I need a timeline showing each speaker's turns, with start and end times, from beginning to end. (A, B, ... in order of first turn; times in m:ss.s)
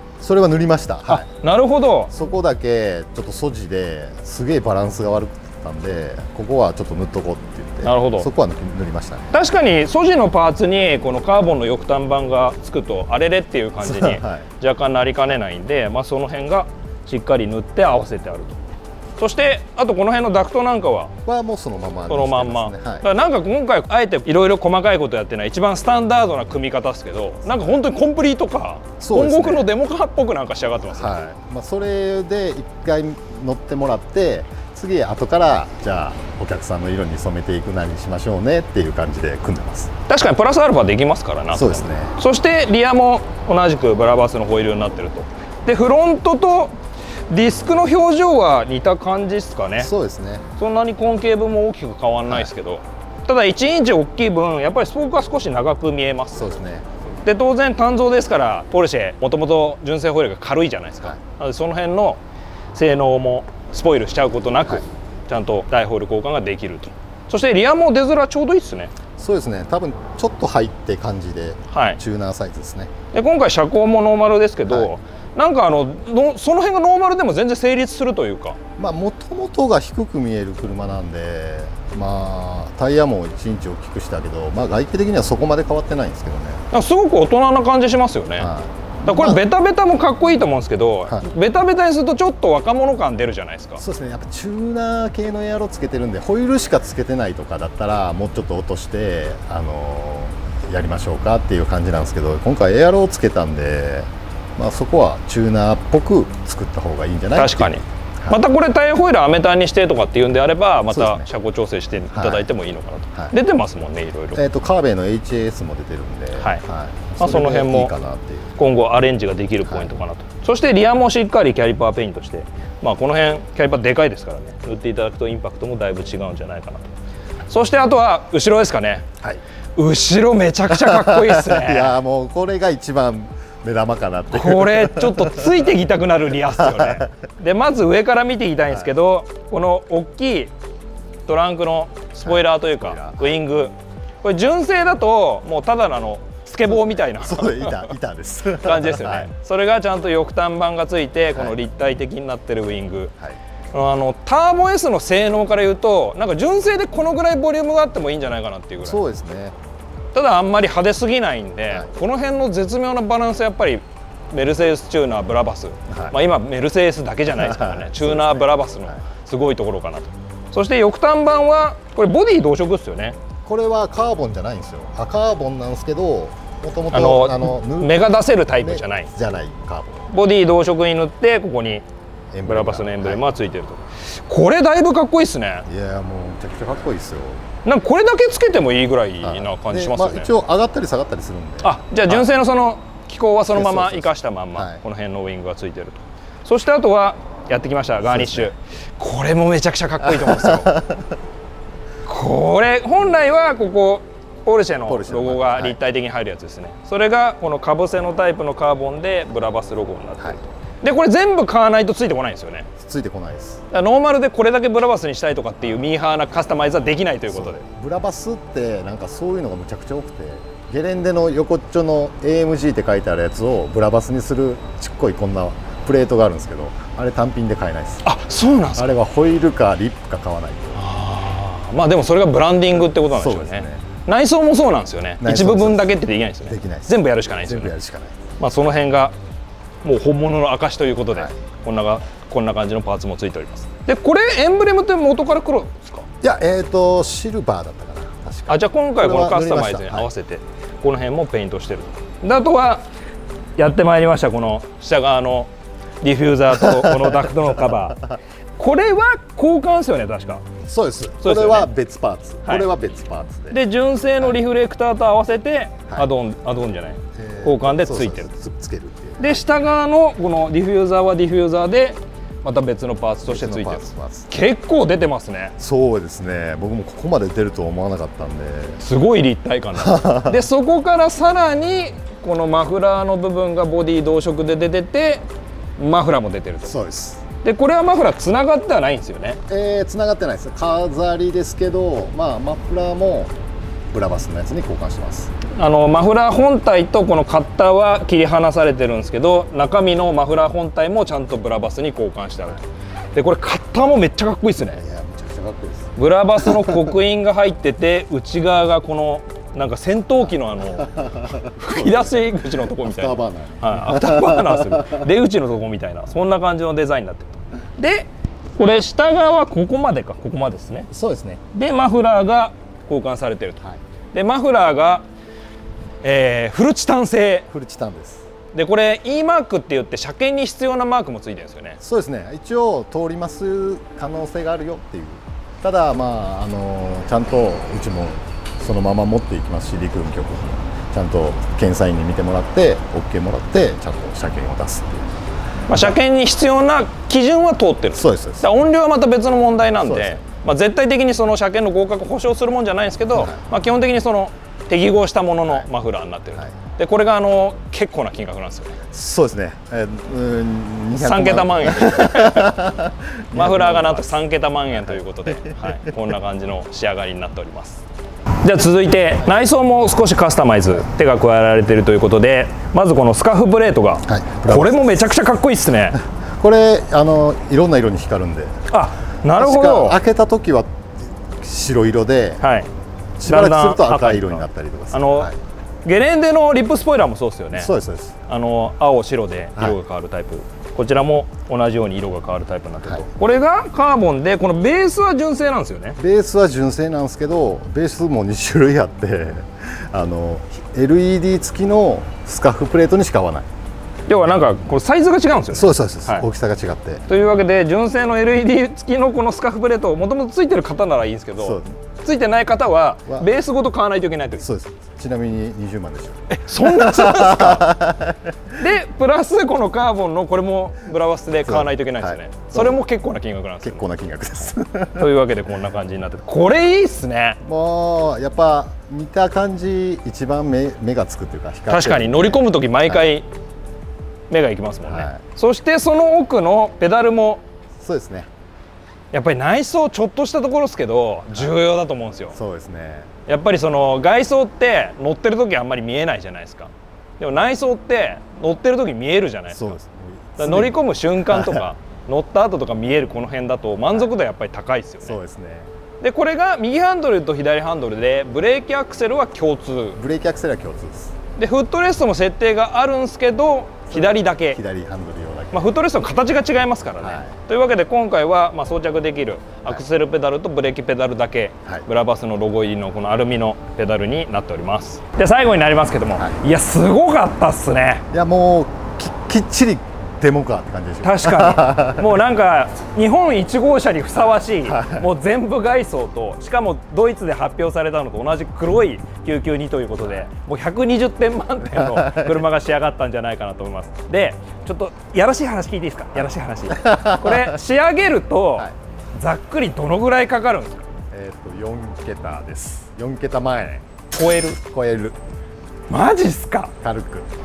0:00.2-0:01.3 A
0:01.1-0:02.1 B
0:02.1-0:09.3 A
0:07.8-0:08.3 B
0:09.3-0:18.6 B
0:13.8-0:14.5 A
0:19.2-0:21.1 B
0:21.2-0:23.0 A
0:22.1-0:31.2 B
0:29.0-0:29.7 A
0:30.8-0:39.9 A
0:40.1-0:46.7 B
0:41.5-0:42.2 A
0:47.3-0:49.9 B
0:49.8-0:50.4 A
0:50.6-0:56.5 B
0:56.3-0:56.9 A
0:57.2-1:02.2 B
1:02.7-1:08.9 B
1:09.2-1:12.9 A
1:11.7-1:12.0 B
1:13.1-1:18.6 B
1:18.8-1:26.6 A
1:26.7-1:28.5 B
1:28.4-1:29.4 A
1:29.0-1:33.8 B
1:33.8-1:48.4 A
1:47.3-1:54.4 B
1:50.9-1:51.3 A
1:52.1-1:52.5 A
1:54.3-1:58.5 A
1:57.2-1:57.9 B
1:58.6-2:06.9 B
1:59.6-1:59.9 A
2:07.5-2:09.0 B
2:09.8-2:11.9 B
2:10.7-2:15.5 A
2:14.3-2:20.5 B
2:16.5-2:17.1 A
2:21.3-2:27.9 B
2:22.2-2:23.4 A
2:26.6-2:29.3 A
2:28.6-2:33.1 B
2:31.3-2:31.6 A
2:33.7-2:39.0 B
2:38.8-2:39.6 A
2:40.1-2:53.2 B
2:45.9-2:46.2 A
2:47.3-2:49.0 A
2:53.4-2:58.1 A
2:56.9-2:59.1 B
2:58.6-3:00.1 A
3:00.1-3:01.8 B
3:02.3-3:03.2 A
3:02.4-3:05.7 B
3:05.7-3:07.4 A
3:07.6-3:10.3 B
3:09.2-3:12.3 A
3:11.6-3:20.8 B
3:13.5-3:14.8 A
3:18.0-3:18.5 A
3:20.0-3:21.1 A
3:22.0-3:32.7 B
3:24.8-3:25.8 A
3:32.8-3:33.6 A
3:33.7-3:37.6 B
3:37.3-3:48.1 A
3:48.0-3:48.9 B
3:48.7-3:50.8 A
3:50.8-3:57.7 B
3:53.1-3:53.8 A
3:55.2-3:55.9 A
3:56.4-3:58.2 A
3:58.4-3:59.1 B
3:59.8-4:06.0 B
4:06.2-4:10.1 A
4:08.5-4:12.8 B
4:13.6-4:15.5 B
4:16.0-4:20.4 B
4:16.5-4:17.7 A
4:20.6-4:23.6 A
4:21.2-4:21.7 B
4:23.5-4:28.3 B
4:27.1-4:29.4 A
4:29.2-4:35.5 B
4:33.3-4:34.3 A
4:35.6-4:38.8 A
4:38.8-4:45.2 B
4:39.7-4:40.4 A
4:45.8-4:46.7 B
4:46.6-4:47.2 A
4:47.4-4:49.4 B
4:49.5-4:53.3 A
4:53.9-4:55.3 A
4:55.5-5:02.6 B
5:03.1-5:04.8 B
5:04.7-5:06.9 A
5:06.0-5:20.9 B
5:10.6-5:15.1 A
5:20.9-5:21.4 A
5:21.5-5:23.6 B
5:24.1-5:25.0 B
5:26.0-5:27.5 B
5:27.5-5:28.2 A
5:28.5-5:31.8 B
5:31.8-5:45.0 A
5:45.7-5:58.8 B
5:47.9-5:48.5 A
5:49.8-5:50.2 A
5:53.1-5:53.4 A
5:58.9-6:04.2 A
6:00.9-6:02.6 B
6:03.3-6:07.8 B
6:04.7-6:05.9 A
6:08.4-6:16.0 B
6:14.1-6:15.2 A
6:16.4-6:18.6 A
6:18.7-6:20.0 B
6:19.4-6:20.7 A
6:21.3-6:22.4 A
6:22.4-6:22.7 B
6:23.2-6:25.3 A
6:23.2-6:25.3 B
6:25.8-6:27.7 B
6:27.5-6:28.2 A
6:28.3-6:36.0 B
6:36.0-6:43.5 A
6:44.1-6:46.2 B
6:45.5-6:47.0 A
6:47.1-6:54.4 B
6:51.4-6:51.7 A
6:54.4-6:58.3 A
6:56.3-6:57.8 B
6:58.5-7:03.8 B
7:01.4-7:02.8 A
7:03.6-7:05.1 A
7:04.9-7:07.4 B
7:07.4-7:13.1 A
7:11.7-7:13.2 B
7:14.3-7:17.4 B
7:14.8-7:15.2 A
7:17.8-7:18.3 A
7:19.1-7:22.4 B
7:22.3-7:23.1 A
7:23.3-7:29.8 B
7:29.5-7:31.6 A
7:30.4-7:35.2 B
7:35.0-7:35.7 A
7:36.0-7:40.0 B
7:40.0-7:41.1 A
7:41.4-7:44.6 B
7:43.9-7:45.7 A
7:45.5-7:58.0 B
7:47.0-7:47.4 A
7:58.1-8:02.1 A
8:01.0-8:20.8 B
8:04.6-8:05.1 A
8:11.6-8:12.4 A
8:16.2-8:17.6 A
8:21.1-8:23.8 A
8:24.1-8:24.6 B
8:24.5-8:25.2 A
8:25.9-8:26.7 B
8:26.8-8:27.3 A